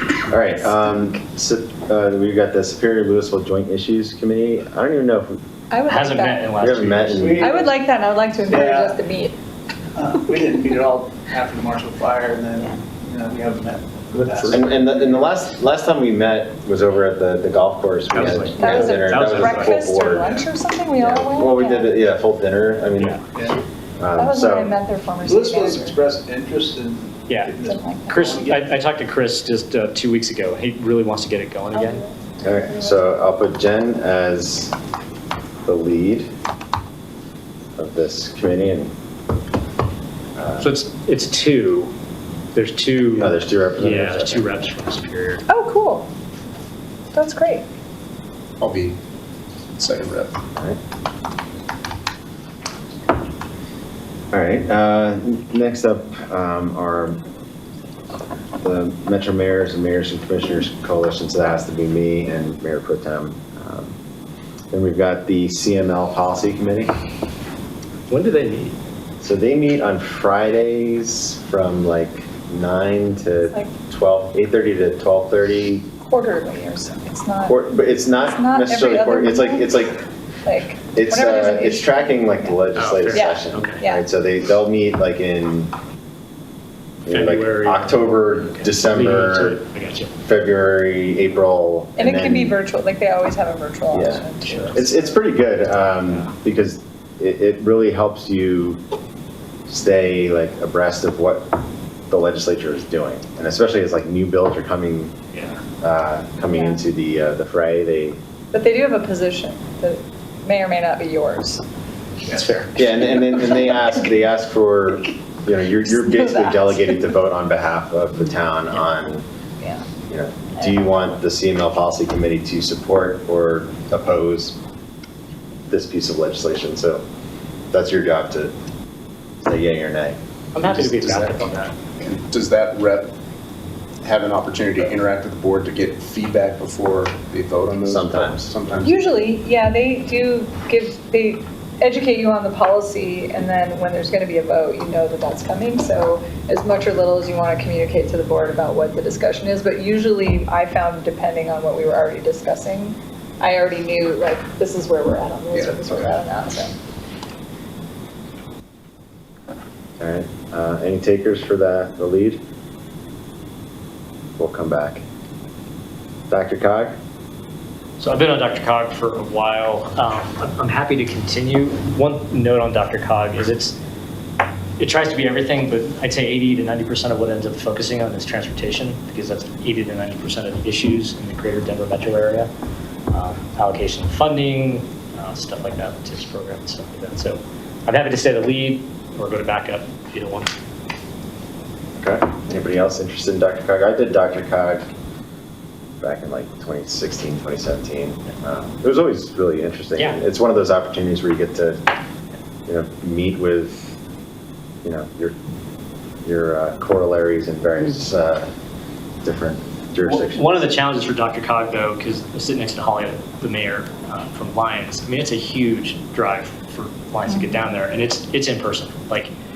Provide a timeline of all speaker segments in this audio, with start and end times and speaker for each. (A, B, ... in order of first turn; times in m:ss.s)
0:00.3-0:05.4 A
0:05.7-0:06.5 B
0:05.9-0:07.4 C
0:06.6-0:07.6 A
0:07.2-0:07.6 D
0:07.4-0:09.4 B
0:08.5-0:09.0 D
0:10.0-0:15.3 D
0:14.5-0:20.3 A
0:18.1-0:19.8 C
0:18.6-0:21.9 B
0:21.0-0:23.2 A
0:23.0-0:23.2 C
0:24.0-0:24.7 A
0:24.2-0:26.0 B
0:25.2-0:28.7 D
0:27.3-0:32.0 C
0:27.7-0:28.2 B
0:31.7-0:32.2 B
0:32.4-0:34.7 A
0:32.8-0:33.1 B
0:35.6-0:36.3 A
0:37.8-0:38.9 A
0:40.4-0:40.7 A
0:40.6-0:41.9 C
0:42.5-0:45.4 C
0:43.1-0:44.5 A
0:45.5-0:46.1 B
0:47.1-0:47.7 B
0:48.6-0:49.0 E
0:49.8-0:50.4 E
0:54.3-0:57.2 A
0:58.6-1:04.0 A
1:04.7-1:06.9 A
1:08.1-1:08.8 C
1:09.2-1:15.9 A
1:16.1-1:17.6 B
1:17.5-1:20.0 A
1:18.2-1:19.8 B
1:20.4-1:22.5 B
1:20.9-1:25.7 A
1:22.8-1:23.8 C
1:23.1-1:24.0 B
1:27.0-1:29.6 A
1:27.1-1:30.1 C
1:30.2-1:32.6 A
1:32.0-1:35.2 B
1:33.9-1:38.8 A
1:39.7-1:41.6 A
1:42.1-1:45.2 A
1:45.3-1:45.6 C
1:45.8-1:48.2 A
1:46.5-1:46.8 B
1:48.5-1:51.6 B
1:52.3-1:52.8 C
1:52.8-1:59.2 A
1:56.0-1:56.8 B
2:00.1-2:04.6 A
2:05.7-2:07.0 A
2:07.7-2:08.5 A
2:09.4-2:10.2 A
2:10.5-2:11.8 C
2:10.6-2:13.1 E
2:14.0-2:19.0 E
2:17.8-2:18.5 A
2:18.8-2:36.8 B
2:35.5-2:36.1 E
2:40.0-2:42.4 A
2:44.4-2:45.0 A
2:46.3-2:47.0 A
2:48.0-2:53.8 C
2:54.8-3:02.5 C
3:03.1-3:10.5 C
3:12.0-3:14.9 A
3:16.0-3:21.8 A
3:22.7-3:24.0 A
3:24.8-3:25.4 A
3:26.2-3:28.5 A
3:29.2-3:30.5 A
3:30.1-3:39.3 C